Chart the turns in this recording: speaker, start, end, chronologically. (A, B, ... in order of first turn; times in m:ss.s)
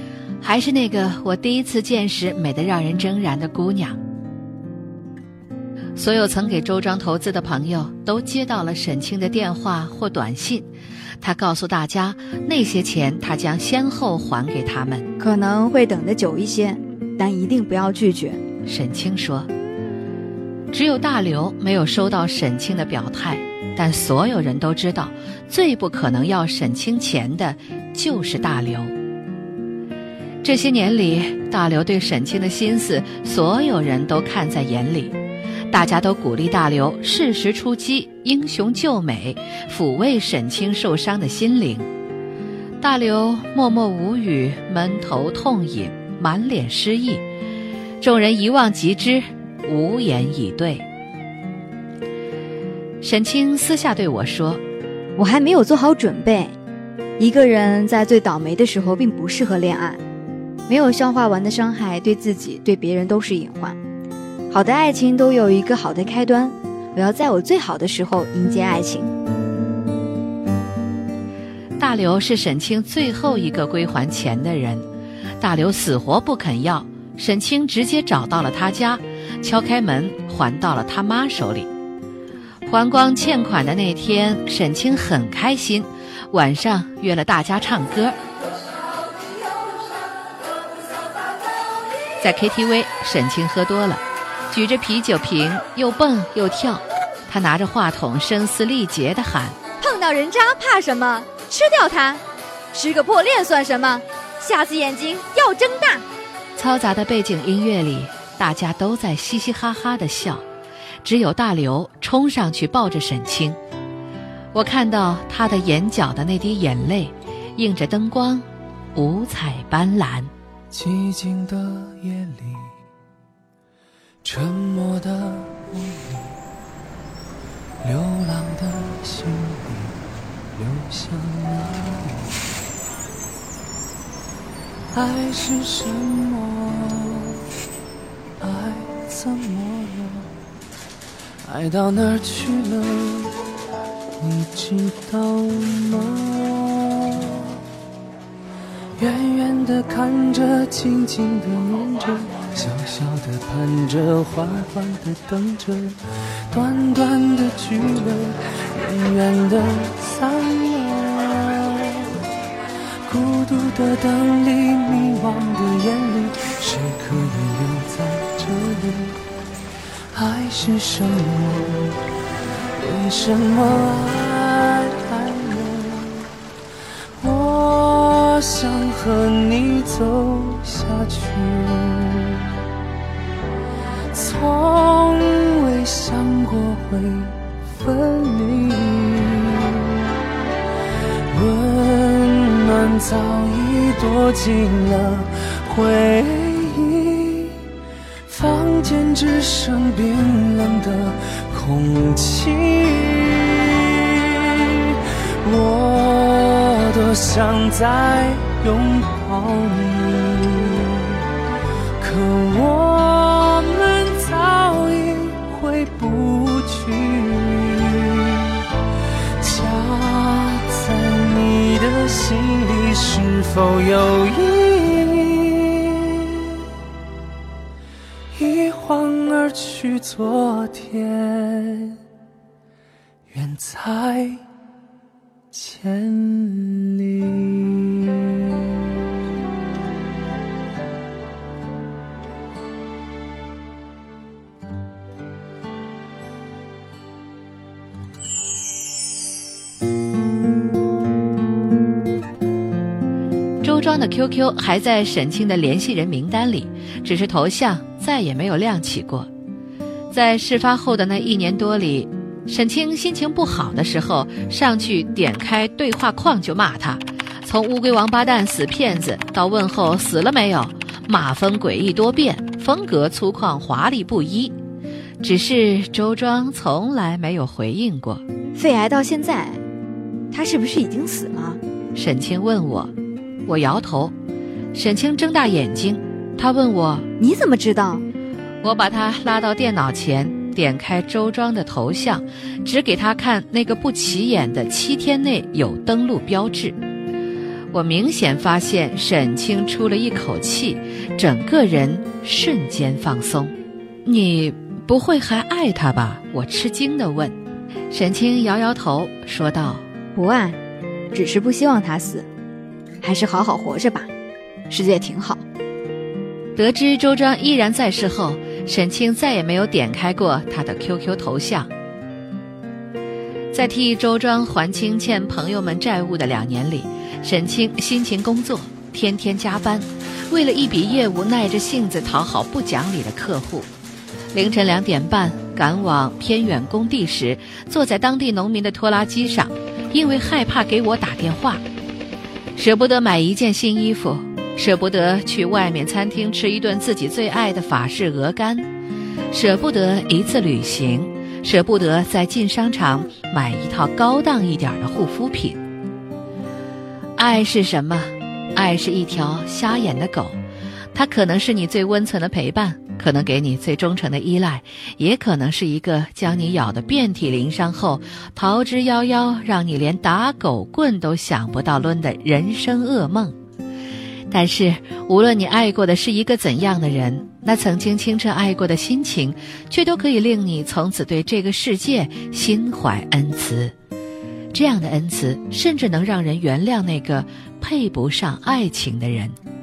0:00.4-0:04.0 A
0:06.0-0:10.7 A
0:11.2-0:15.1 A
0:15.2-0:18.4 B
0:18.7-0:19.5 A
0:20.7-0:28.9 A
0:30.4-0:35.2 A
0:35.7-0:41.9 A
0:42.8-0:47.2 A
0:48.0-0:50.8 A
0:53.0-0:54.6 A
0:55.2-0:56.6 B
0:57.2-1:00.0 B
1:00.7-1:03.8 B
1:04.5-1:09.1 B
1:11.8-1:14.8 A
1:15.4-1:21.7 A
1:22.7-1:28.2 A
1:32.2-1:39.6 A
1:39.8-1:46.0 B
1:46.6-1:50.4 A
1:51.0-1:53.6 A
1:54.5-2:00.3 A
2:00.7-2:02.7 C
2:04.2-2:06.4 C
2:07.8-2:10.0 C
2:10.6-2:12.4 C
2:14.9-2:17.4 C
2:18.4-2:20.3 C
2:21.4-2:23.4 C
2:24.2-2:27.6 C
2:29.0-2:36.0 C
2:36.5-2:42.1 C
2:43.0-2:49.2 C
2:50.1-2:52.0 C
2:52.8-2:56.3 C
2:57.2-3:02.6 C
3:04.1-3:10.0 C
3:11.3-3:17.6 C
3:18.3-3:31.2 C
3:32.0-3:38.6 C
3:39.4-3:46.6 C
3:48.3-3:52.0 C
3:53.3-3:54.5 C
3:55.5-3:58.5 C
4:13.6-4:19.3 A
4:20.1-4:34.5 A
4:35.2-4:38.2 A
4:38.6-4:39.6 B
4:40.3-4:41.6 B
4:42.0-4:42.9 A
4:43.5-4:44.2 A
4:44.7-4:47.1 A
4:47.2-4:48.1 B
4:48.6-4:56.8 A
4:57.7-5:03.5 A
5:04.0-5:07.4 A
5:07.9-5:09.8 A
5:10.2-5:10.6 B
5:11.1-5:12.3 B
5:13.0-5:14.1 B
5:14.7-5:15.4 B
5:16.6-5:21.7 A
5:23.5-5:33.7 A
5:34.3-5:41.6 A
5:42.6-5:48.7 A
5:49.3-5:55.6 A
5:57.2-6:00.4 A
6:00.9-6:13.4 A
6:14.3-6:23.7 A
6:24.5-6:29.4 A